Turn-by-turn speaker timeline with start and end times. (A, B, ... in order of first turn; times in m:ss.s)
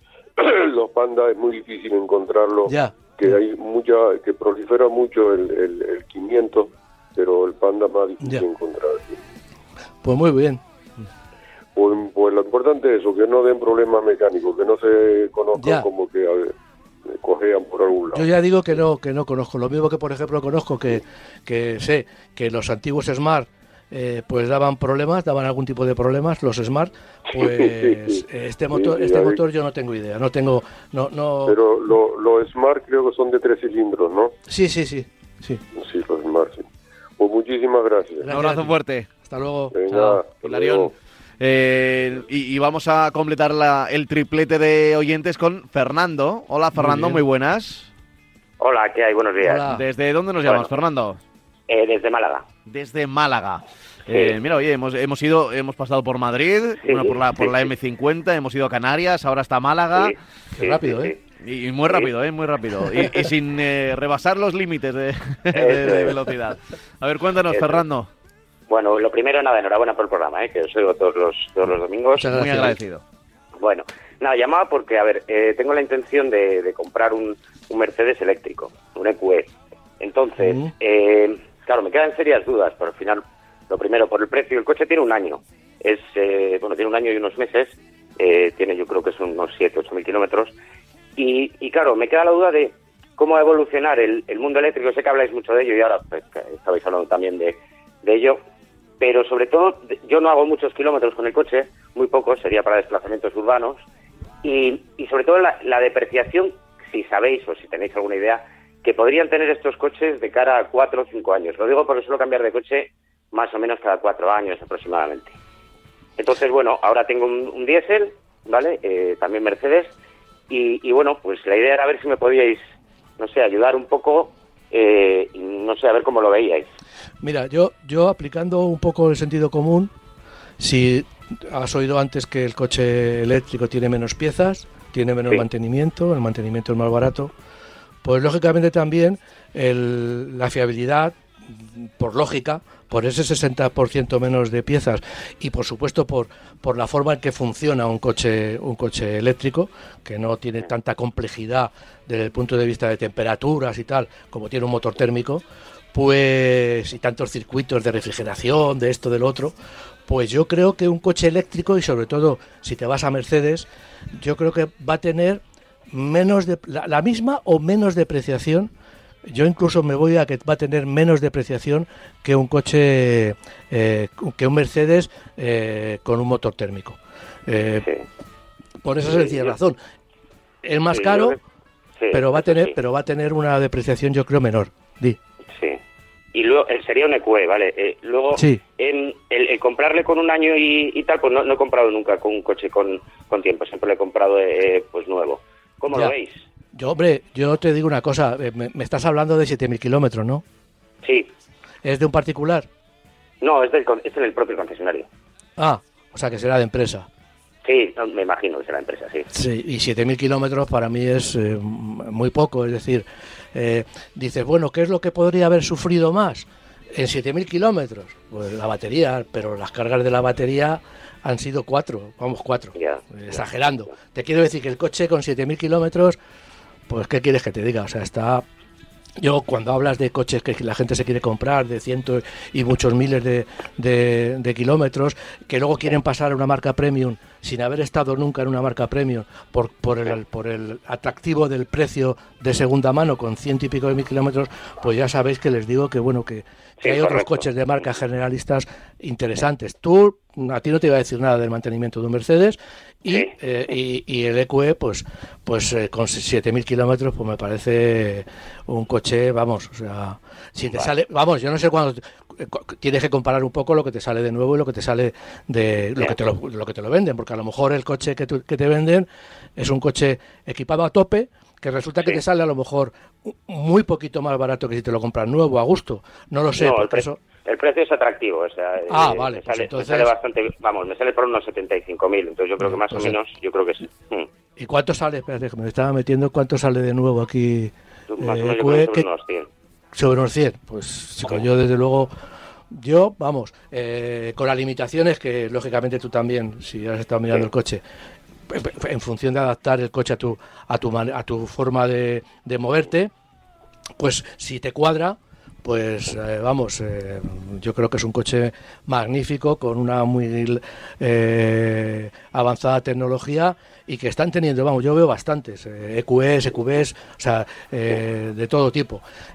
0:00.4-0:09.2 A
0:02.6-0:03.4 B
0:08.2-0:08.4 B
0:10.0-0:10.6 B
0:11.7-0:16.5 A
0:15.5-0:15.9 B
0:17.1-0:18.2 A
0:18.1-0:31.6 B
0:27.3-0:29.4 A
0:31.4-0:34.3 A
0:34.5-0:35.6 B
0:35.8-0:36.6 A
0:37.2-0:38.3 A
0:38.2-0:39.8 B
0:38.3-0:39.1 C
0:39.7-0:40.9 A
0:39.9-0:47.9 C
0:46.7-0:47.2 B
0:48.6-0:49.6 D
0:49.4-0:49.8 B
0:49.7-0:51.2 C
0:50.4-0:50.7 D
0:51.7-0:52.5 D
0:52.6-1:00.2 C
0:54.1-0:54.4 D
0:56.8-0:57.7 D
0:59.9-1:01.2 D
1:00.6-1:01.1 B
1:01.4-1:08.1 C
1:05.5-1:06.2 D
1:07.5-1:07.8 D
1:08.7-1:12.4 D
1:12.2-1:12.7 B
1:12.2-1:13.0 C
1:13.6-1:30.5 D
1:20.4-1:20.7 B
1:31.2-1:38.4 D
1:39.0-1:43.8 D
1:44.4-1:55.4 D
1:56.2-1:59.9 D
2:00.5-2:02.6 D
2:03.2-2:06.7 D
2:07.2-2:09.9 B
2:10.6-2:17.3 B
2:18.0-2:39.5 B
2:40.1-2:48.7 B
2:49.2-2:57.9 B
2:58.8-2:59.8 B
3:00.6-3:01.4 B
3:00.9-3:01.4 D
3:02.0-3:02.7 D
3:02.1-3:05.2 B
3:05.5-3:05.8 D
3:06.3-3:16.4 D
3:08.3-3:08.6 B
3:16.7-3:20.4 B
3:21.0-3:21.3 D
3:21.8-3:22.7 B
3:23.4-3:25.1 D
3:25.6-3:27.1 B
3:27.6-3:29.3 D
3:29.3-3:46.2 B
3:42.8-3:43.4 D
3:46.9-3:48.4 B
3:49.2-4:37.2 B
4:06.8-4:07.4 D
4:36.6-4:44.3 D
4:38.9-4:40.1 B
4:42.6-4:43.2 B
4:44.6-4:49.1 B
4:48.1-4:49.5 D
4:49.9-4:52.1 B
4:52.7-4:57.8 B
4:58.5-5:03.1 B
5:04.0-5:19.0 B